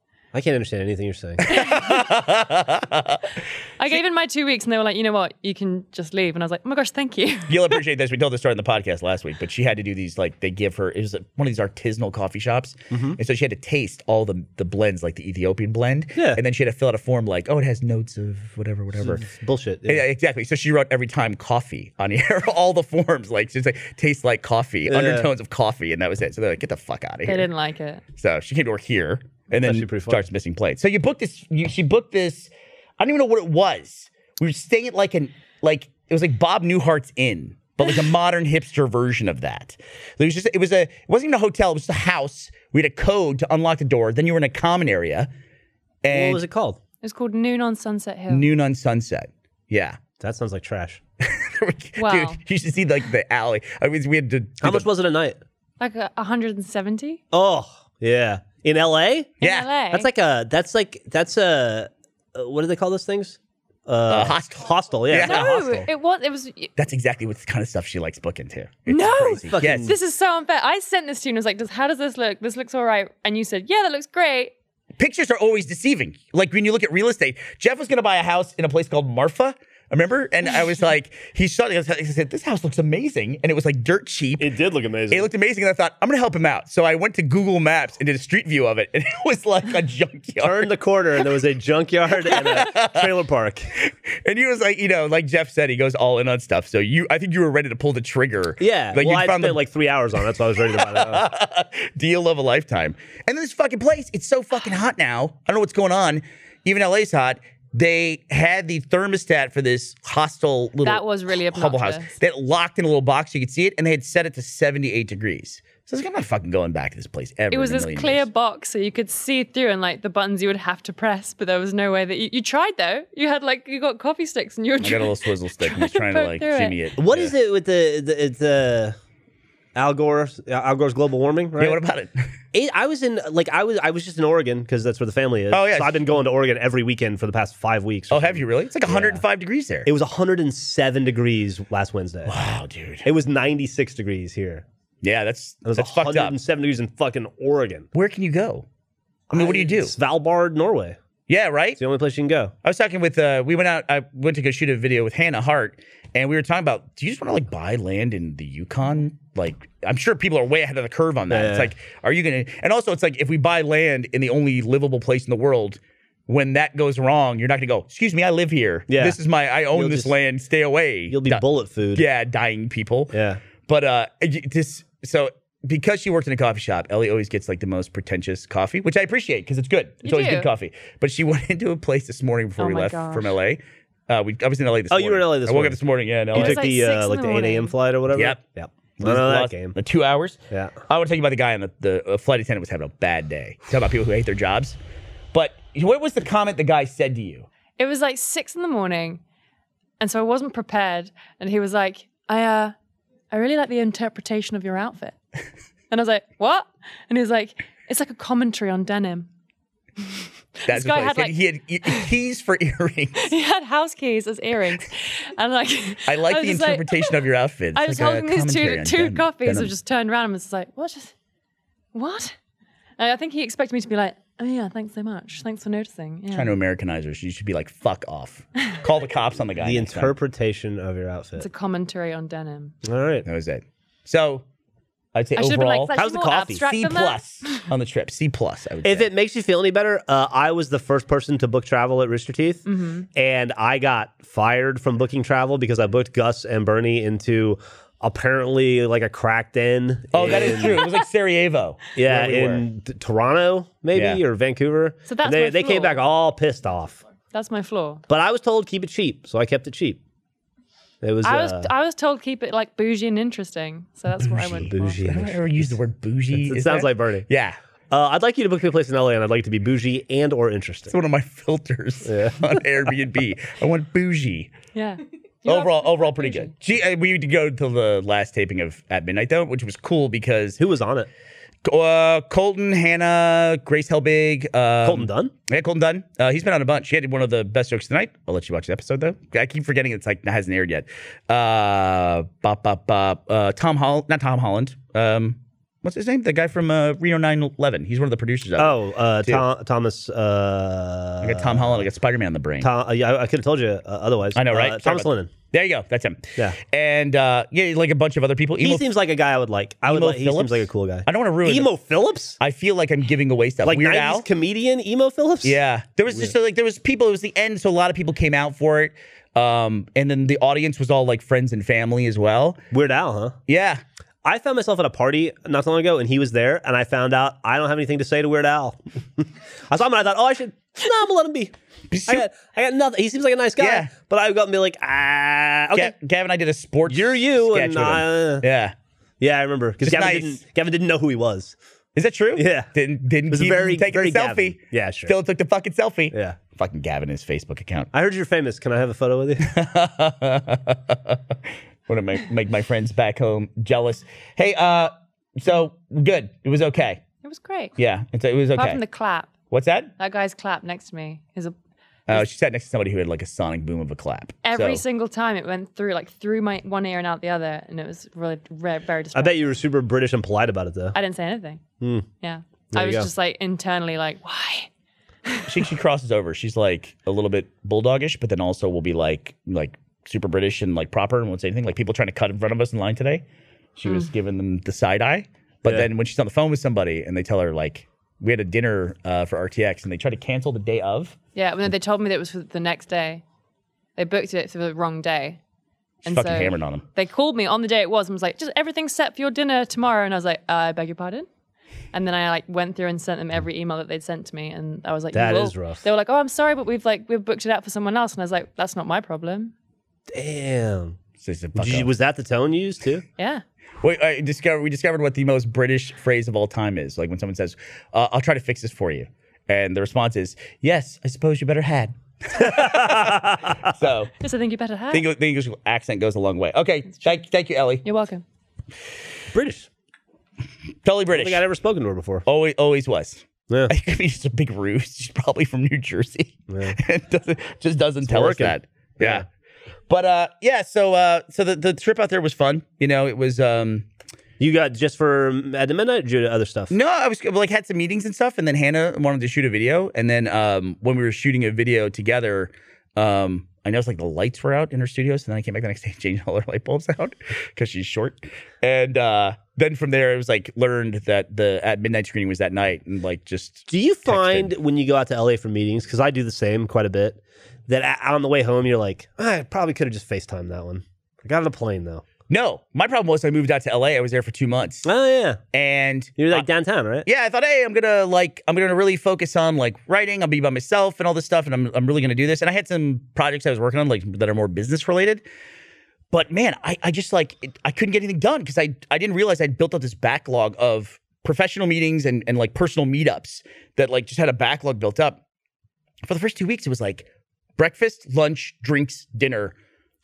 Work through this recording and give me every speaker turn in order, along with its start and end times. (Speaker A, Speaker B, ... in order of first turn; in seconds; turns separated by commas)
Speaker A: 0.3-1.5, Speaker B: 1.4-3.2, Speaker C: 1.5-2.1, Speaker C: 3.8-7.8, Speaker B: 7.5-19.2, Speaker A: 12.9-13.2, Speaker A: 16.1-16.4, Speaker A: 18.9-20.0, Speaker B: 19.9-27.5, Speaker A: 24.9-25.3, Speaker C: 27.2-28.0, Speaker B: 28.1-45.3, Speaker A: 29.5-30.2, Speaker B: 46.0-46.4, Speaker A: 46.1-46.8, Speaker C: 47.0-48.5, Speaker B: 48.3-50.0, Speaker A: 50.2-51.0, Speaker B: 51.2-54.9, Speaker C: 52.0-52.4, Speaker A: 54.6-55.4, Speaker C: 55.8-57.2, Speaker A: 57.3-59.3, Speaker C: 59.4-60.1, Speaker B: 59.4-59.7, Speaker A: 59.9-65.9, Speaker B: 64.1-65.7, Speaker C: 65.2-66.7, Speaker B: 66.8-69.9, Speaker C: 68.9-74.5, Speaker A: 69.5-69.9, Speaker B: 75.0-84.5, Speaker A: 84.4-85.3, Speaker B: 85.1-90.7, Speaker A: 90.4-93.7, Speaker B: 92.2-93.1, Speaker B: 93.8-99.6, Speaker A: 98.6-101.3, Speaker B: 100.6-118.3, Speaker C: 110.8-112.1, Speaker C: 117.5-126.8, Speaker B: 124.8-127.3, Speaker A: 127.0-128.9, Speaker A: 129.7-131.8, Speaker B: 131.6-132.3, Speaker A: 132.5-139.2, Speaker B: 135.5-136.0, Speaker B: 138.1-139.9, Speaker A: 139.8-142.3, Speaker B: 142.2-143.1, Speaker A: 143.0-144.6, Speaker B: 145.0-146.3, Speaker A: 145.6-147.9, Speaker B: 147.9-148.7, Speaker A: 149.3-151.0, Speaker B: 149.3-149.9, Speaker B: 151.3-151.8, Speaker A: 151.8-152.5, Speaker B: 152.6-173.1, Speaker A: 161.3-161.7, Speaker A: 168.9-169.2, Speaker A: 169.7-170.1, Speaker A: 171.1-172.0, Speaker A: 173.1-173.4, Speaker B: 173.7-186.7, Speaker C: 180.0-180.5, Speaker C: 182.6-183.3, Speaker A: 184.9-185.8, Speaker C: 186.3-187.7, Speaker A: 186.3-189.8, Speaker B: 188.1-188.4, Speaker B: 189.0-194.8, Speaker A: 190.5-190.8, Speaker B: 195.3-197.5, Speaker C: 197.8-199.2, Speaker C: 200.0-202.7, Speaker C: 203.3-205.1, Speaker C: 205.9-209.3, Speaker C: 210.6-212.1, Speaker B: 210.7-213.3, Speaker C: 213.2-217.2, Speaker B: 216.1-219.7, Speaker C: 217.7-221.1, Speaker C: 221.9-222.4, Speaker C: 223.0-226.5, Speaker B: 226.3-230.1, Speaker A: 229.6-231.5, Speaker C: 231.3-232.8, Speaker A: 232.8-233.3, Speaker B: 233.2-234.4, Speaker B: 235.1-235.9, Speaker C: 235.3-237.7, Speaker A: 235.9-236.6, Speaker B: 236.5-239.1, Speaker A: 238.8-250.8, Speaker C: 242.7-243.1, Speaker B: 250.1-252.6, Speaker A: 251.9-257.0, Speaker B: 253.9-254.2, Speaker C: 255.1-256.0, Speaker C: 257.3-258.0, Speaker A: 258.1-260.0, Speaker A: 261.0-261.7, Speaker C: 261.2-265.0, Speaker A: 264.2-265.8, Speaker B: 265.0-267.6, Speaker A: 266.3-267.3, Speaker A: 267.9-270.9, Speaker B: 270.9-274.5, Speaker A: 272.0-272.6, Speaker C: 274.7-276.5, Speaker B: 275.4-280.6, Speaker A: 280.6-281.1, Speaker B: 281.6-299.4, Speaker A: 284.8-285.3, Speaker A: 298.6-301.9, Speaker B: 301.2-302.7, Speaker A: 302.6-305.3, Speaker B: 304.3-308.9, Speaker A: 308.6-312.4, Speaker B: 309.9-311.7, Speaker B: 312.4-314.2, Speaker A: 313.6-315.6, Speaker B: 315.4-322.6, Speaker A: 322.7-323.4, Speaker B: 323.5-323.8, Speaker A: 324.2-331.5, Speaker B: 331.9-332.3, Speaker A: 332.1-335.9, Speaker B: 333.6-333.9, Speaker B: 335.7-338.7, Speaker A: 336.9-338.4, Speaker A: 339.2-341.5, Speaker B: 339.8-340.4, Speaker B: 341.9-347.9, Speaker A: 342.3-342.7, Speaker A: 343.3-345.1, Speaker A: 346.1-346.4, Speaker A: 347.9-349.5, Speaker B: 349.4-351.3, Speaker B: 351.9-357.0, Speaker C: 357.2-357.7, Speaker B: 357.8-358.8, Speaker C: 358.5-359.3, Speaker B: 359.5-359.9, Speaker C: 360.0-361.6, Speaker B: 362.1-364.8, Speaker C: 364.4-369.5, Speaker A: 369.1-371.0, Speaker C: 370.9-371.6, Speaker A: 371.8-372.1, Speaker C: 372.2-374.7, Speaker A: 372.7-373.1, Speaker C: 375.2-375.6, Speaker B: 375.5-383.2, Speaker B: 383.8-391.1, Speaker C: 391.3-393.2, Speaker C: 393.9-395.4, Speaker C: 396.0-401.3, Speaker B: 396.0-396.8, Speaker C: 401.9-409.5, Speaker A: 405.1-405.8, Speaker A: 410.1-411.0, Speaker B: 411.2-411.9, Speaker A: 411.5-413.0, Speaker C: 413.2-413.4, Speaker B: 413.8-424.1, Speaker A: 422.4-423.6, Speaker C: 424.2-425.1, Speaker B: 424.9-427.8, Speaker C: 427.8-428.2, Speaker A: 429.3-429.7, Speaker B: 430.8-431.4, Speaker A: 431.1-432.2, Speaker B: 432.2-439.2, Speaker A: 436.5-436.8, Speaker A: 438.0-439.2, Speaker B: 439.9-443.9, Speaker A: 444.4-446.7, Speaker B: 446.7-464.5, Speaker A: 463.7-472.0, Speaker B: 472.3-474.9, Speaker A: 474.8-475.4, Speaker B: 475.5-476.5, Speaker A: 476.2-477.1, Speaker B: 477.0-485.2, Speaker B: 486.1-495.2, Speaker B: 496.0-497.1, Speaker B: 497.6-499.5